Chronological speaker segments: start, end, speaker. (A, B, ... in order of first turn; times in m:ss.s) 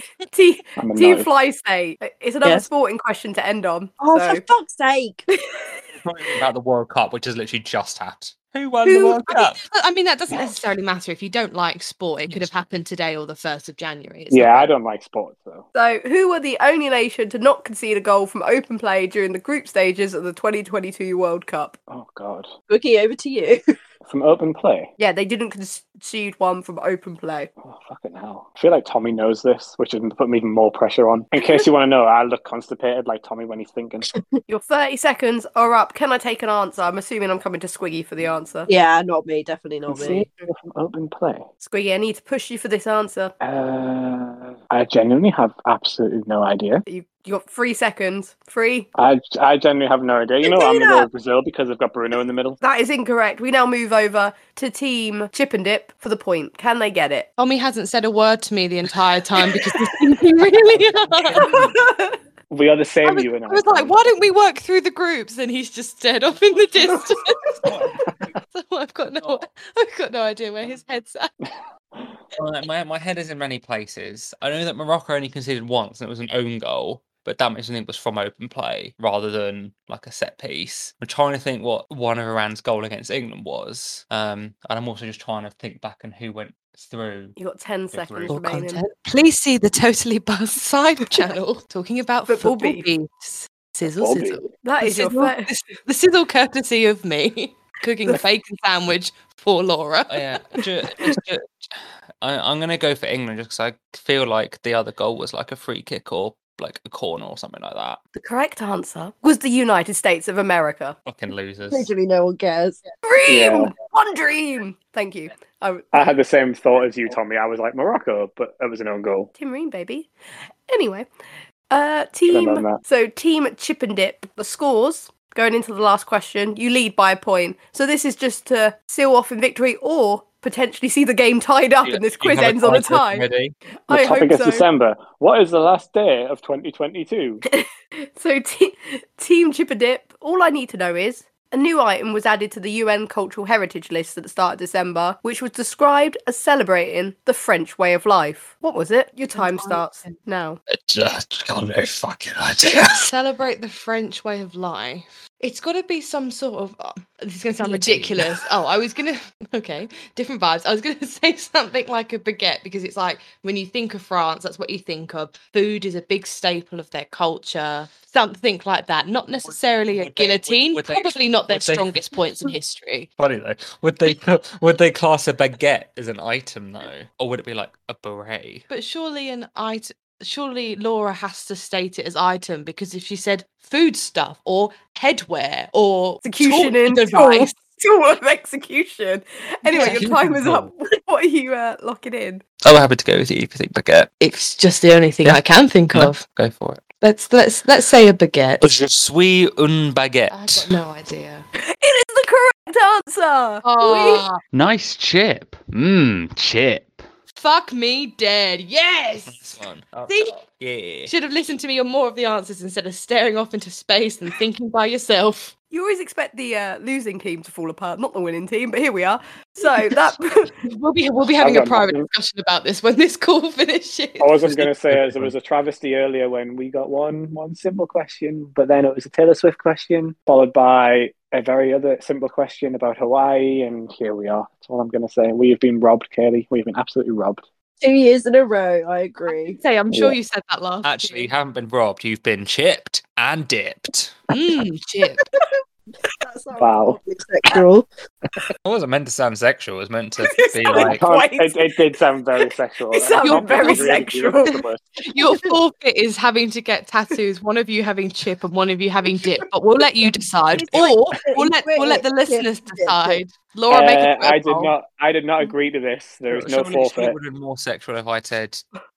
0:00.2-0:04.4 A
0:00.8-0:01.3 B
0:04.0-0:05.2 C
0:05.3-0:05.8 A
0:06.0-0:09.6 D
0:08.8-0:09.2 A
0:09.3-0:14.7 E
0:12.3-0:12.6 D
0:14.3-0:15.6 B
0:15.7-0:21.8 A
0:21.9-0:22.5 B
0:22.7-0:23.6 C
0:24.0-0:24.9 B
0:25.0-0:27.5 A
0:27.6-0:34.1 B
0:34.5-0:38.7 A
0:38.7-0:40.3 C
0:39.9-0:41.4 B
0:41.6-0:43.3 A
0:43.4-0:46.8 B
0:46.8-0:48.9 A
0:49.0-0:52.6 B
0:50.4-0:51.1 A
0:52.6-0:57.3 A
0:57.4-1:01.5 E
1:00.6-1:01.7 D
1:01.4-1:02.2 A
1:02.5-1:04.0 B
1:03.0-1:07.7 E
1:06.3-1:07.0 D
1:07.6-1:08.3 D
1:08.4-1:11.3 E
1:09.2-1:09.4 D
1:11.4-1:12.2 B
1:12.3-1:27.4 D
1:27.4-1:28.8 A
1:27.9-1:28.4 D
1:28.3-1:40.6 E
1:32.2-1:32.8 A
1:33.8-1:34.5 B
1:34.5-1:35.5 A
1:40.1-1:48.0 D
1:48.1-1:51.0 A
1:51.0-1:51.9 D
1:51.7-1:52.8 C
1:53.0-1:55.9 A
1:53.3-1:53.7 B
1:55.9-1:59.3 B
1:59.4-2:00.1 A
2:00.7-2:01.1 A
2:01.7-2:13.2 A
2:02.3-2:02.8 B
2:11.8-2:13.5 D
2:13.9-2:14.7 A
2:13.9-2:17.4 B
2:17.4-2:30.6 A
2:29.3-2:30.2 E
2:30.7-2:33.1 D
2:32.6-2:53.1 E
2:37.6-2:38.4 D
2:49.4-2:52.5 D
2:53.2-2:58.6 D
2:58.7-3:07.5 E
3:06.2-3:12.4 A
3:09.7-3:10.7 D
3:09.7-3:10.0 E
3:12.6-3:14.1 D
3:14.2-3:16.2 E
3:15.2-3:16.8 D
3:17.0-3:18.6 E
3:18.6-3:20.8 D
3:20.3-3:21.4 E
3:21.6-3:24.2 A
3:23.6-3:24.4 E
3:24.5-3:27.0 D
3:27.3-3:29.4 E
3:29.3-3:31.1 D
3:30.1-3:30.4 E
3:31.1-3:35.5 E
3:35.7-3:40.5 A
3:40.6-3:44.6 E
3:41.4-3:42.0 B
3:44.2-3:57.4 B
3:44.9-3:45.3 D
3:57.8-3:59.6 C
3:59.3-4:01.3 E
3:59.9-4:00.2 B
4:00.8-4:04.2 D
4:04.3-4:05.2 E
4:06.2-4:07.9 C
4:06.6-4:07.0 B
4:08.6-4:11.0 D
4:10.2-4:11.8 A
4:10.8-4:14.9 B
4:12.9-4:14.6 A
4:13.2-4:13.9 E
4:15.0-4:24.7 E
4:20.6-4:23.2 C
4:23.7-4:27.2 B
4:26.3-4:28.6 D